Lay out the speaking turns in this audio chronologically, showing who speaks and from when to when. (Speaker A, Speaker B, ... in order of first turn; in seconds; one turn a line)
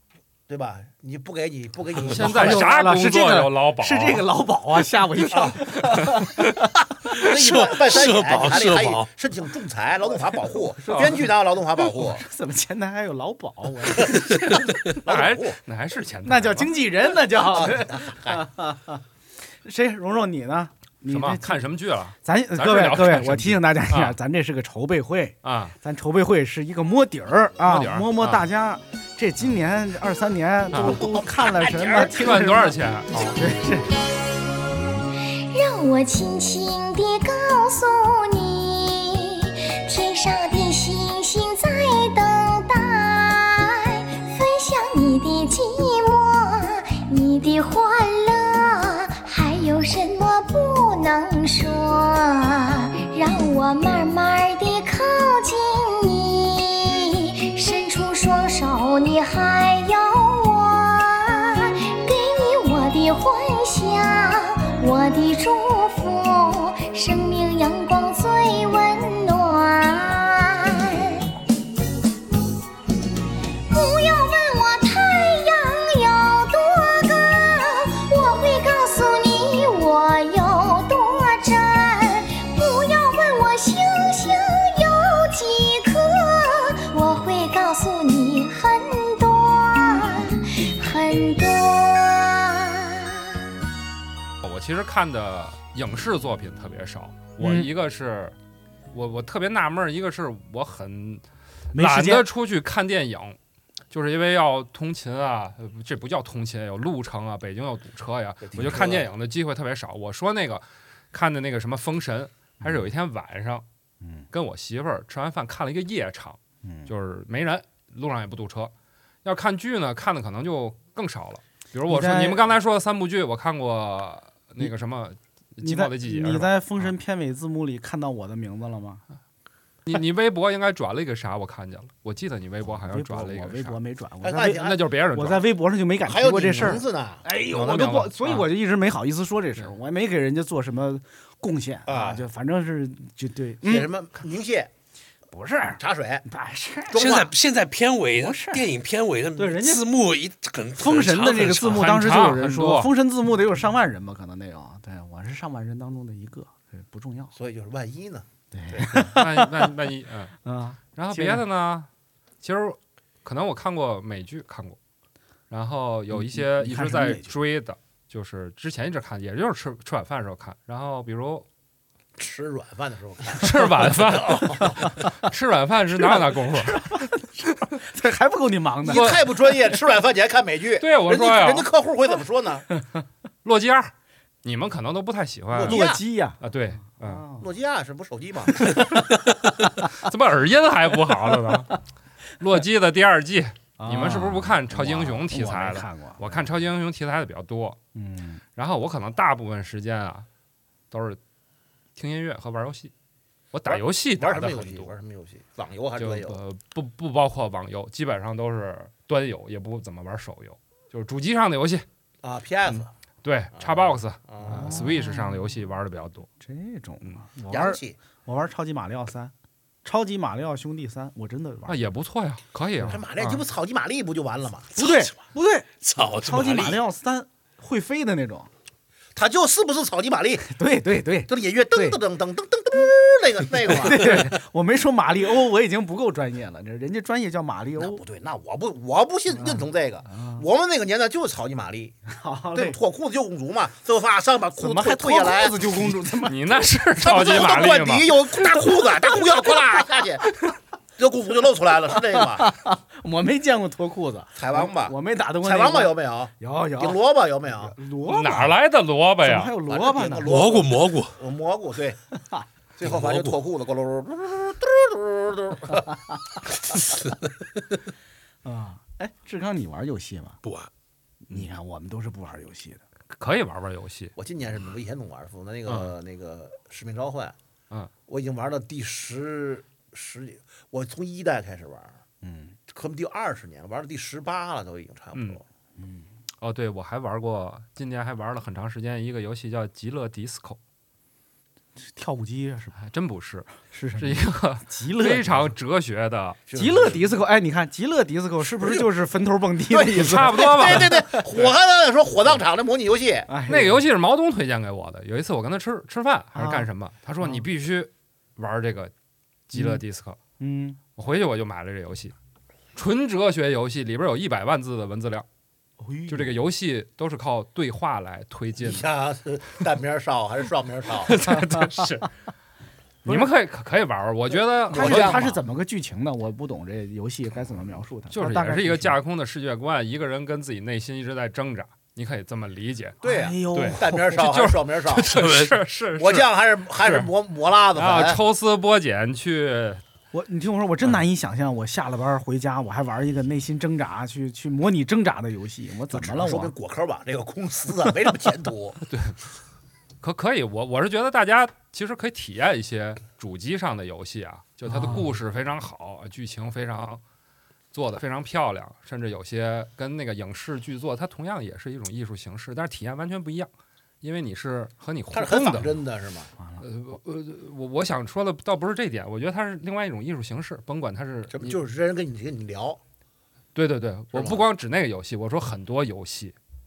Speaker A: 0.5-2.7
Speaker B: 2.0-4.3
Speaker C: 2.1-6.6
Speaker A: 5.3-5.8
Speaker B: 5.8-6.3
Speaker A: 7.2-12.2
Speaker D: 7.2-9.1
Speaker C: 10.8-14.3
Speaker A: 14.1-15.6
Speaker B: 15.0-16.8
Speaker C: 16.2-19.0
Speaker A: 17.3-18.5
Speaker C: 19.6-21.6
Speaker B: 21.1-24.2
Speaker C: 22.2-32.7
Speaker B: 25.4-25.8
Speaker B: 27.6-28.4
Speaker B: 30.7-31.0
Speaker A: 30.7-32.4
Speaker B: 31.9-33.4
Speaker C: 33.3-33.9
Speaker E: 35.5-71.3
Speaker E: 73.7-93.2
Speaker B: 94.4-98.3
Speaker C: 97.4-97.7
Speaker B: 98.9-103.4
Speaker C: 101.7-102.3
Speaker B: 103.9-113.7
Speaker A: 108.4-109.1
Speaker C: 112.6-112.9
Speaker C: 114.0-114.3
Speaker B: 114.3-118.7
Speaker C: 116.6-116.9
Speaker B: 119.2-126.9
Speaker C: 121.9-122.5
Speaker C: 125.6-129.0
Speaker B: 129.8-133.8
Speaker C: 132.6-143.9
Speaker A: 134.2-134.9
Speaker B: 134.4-135.4
Speaker A: 136.1-137.2
Speaker B: 137.5-138.5
Speaker A: 141.8-142.3
Speaker A: 143.6-144.7
Speaker C: 145.3-147.0
Speaker A: 145.8-146.2
Speaker A: 146.9-147.3
Speaker D: 146.9-151.8
Speaker C: 148.2-148.6
Speaker C: 149.4-149.8
Speaker C: 150.8-157.3
Speaker B: 151.7-152.9
Speaker A: 157.3-158.3
Speaker C: 158.5-159.7
Speaker B: 158.9-160.3
Speaker C: 160.4-161.4
Speaker B: 160.9-161.9
Speaker B: 162.4-164.8
Speaker B: 165.5-171.4
Speaker C: 166.1-167.3
Speaker A: 172.2-174.9
Speaker B: 173.4-177.0
Speaker C: 176.0-179.1
Speaker A: 178.8-182.7
Speaker B: 178.9-179.2
Speaker B: 180.8-181.7
Speaker B: 183.4-183.9
Speaker B: 184.4-185.8
Speaker A: 185.5-186.0
Speaker C: 185.7-187.4
Speaker B: 186.4-187.2
Speaker A: 187.4-188.8
Speaker B: 190.0-191.8
Speaker B: 192.4-197.8
Speaker C: 193.8-196.5
Speaker C: 197.9-198.4
Speaker B: 198.6-200.2
Speaker B: 200.9-201.2
Speaker B: 201.9-202.9
Speaker B: 203.5-204.9
Speaker A: 203.7-206.4
Speaker B: 206.0-211.8
Speaker A: 212.2-212.9
Speaker B: 212.7-216.3
Speaker A: 213.5-214.8
Speaker C: 214.4-215.6
Speaker C: 216.4-219.3
Speaker A: 217.5-218.0
Speaker C: 219.8-221.8
Speaker B: 221.7-223.4
Speaker A: 222.8-224.7
Speaker C: 224.8-228.5
Speaker D: 224.8-225.1
Speaker D: 225.8-226.8
Speaker A: 229.1-230.5
Speaker C: 230.4-232.0
Speaker A: 231.2-234.3
Speaker C: 233.7-238.0
Speaker A: 237.8-242.0
Speaker C: 239.3-240.4
Speaker C: 242.1-242.8
Speaker A: 242.5-245.9
Speaker C: 244.6-246.6
Speaker B: 246.2-248.6
Speaker A: 247.0-250.3
Speaker A: 251.0-252.5
Speaker C: 252.1-257.0
Speaker A: 254.3-257.8
Speaker C: 257.5-258.5
Speaker B: 258.1-259.5
Speaker C: 259.2-260.3
Speaker A: 259.7-262.0
Speaker D: 260.2-261.2
Speaker A: 262.8-265.9
Speaker D: 262.8-263.4
Speaker C: 268.4-270.4
Speaker D: 270.4-270.7
Speaker C: 271.2-272.8
Speaker B: 273.1-274.1
Speaker A: 274.1-277.4
Speaker A: 278.1-282.0
Speaker C: 282.2-282.6
Speaker A: 282.7-285.4
Speaker B: 285.1-285.4
Speaker C: 285.8-286.1
Speaker B: 286.4-290.6
Speaker C: 291.8-292.8
Speaker B: 292.8-296.4
Speaker C: 293.7-295.5
Speaker A: 296.5-297.1
Speaker C: 296.5-301.2
Speaker A: 299.7-303.3
Speaker B: 299.9-301.5
Speaker C: 303.3-303.8
Speaker B: 303.5-308.9
Speaker C: 306.3-306.7
Speaker B: 309.5-310.2
Speaker C: 309.5-309.8
Speaker C: 310.4-310.8
Speaker B: 310.9-312.1
Speaker B: 312.7-315.2
Speaker C: 315.8-316.4
Speaker B: 316.1-318.9
Speaker A: 318.6-321.1
Speaker B: 321.1-322.1
Speaker C: 321.3-321.7
Speaker C: 323.0-323.3
Speaker B: 323.0-325.4
Speaker A: 324.7-325.3
Speaker C: 324.7-329.0
Speaker B: 328.1-333.0
Speaker C: 333.0-334.2
Speaker A: 333.0-335.2
Speaker B: 333.5-337.1
Speaker D: 335.1-335.5
Speaker A: 336.0-338.2
Speaker B: 337.7-339.8
Speaker C: 340.1-346.5
Speaker A: 345.9-348.8
Speaker B: 348.9-349.2
Speaker B: 350.0-357.0
Speaker C: 354.7-355.1
Speaker B: 357.7-363.5
Speaker B: 364.0-365.8
Speaker A: 365.1-366.3
Speaker C: 366.4-366.6
Speaker B: 366.6-371.6
Speaker A: 371.3-372.8
Speaker B: 373.5-376.3
Speaker A: 374.1-374.4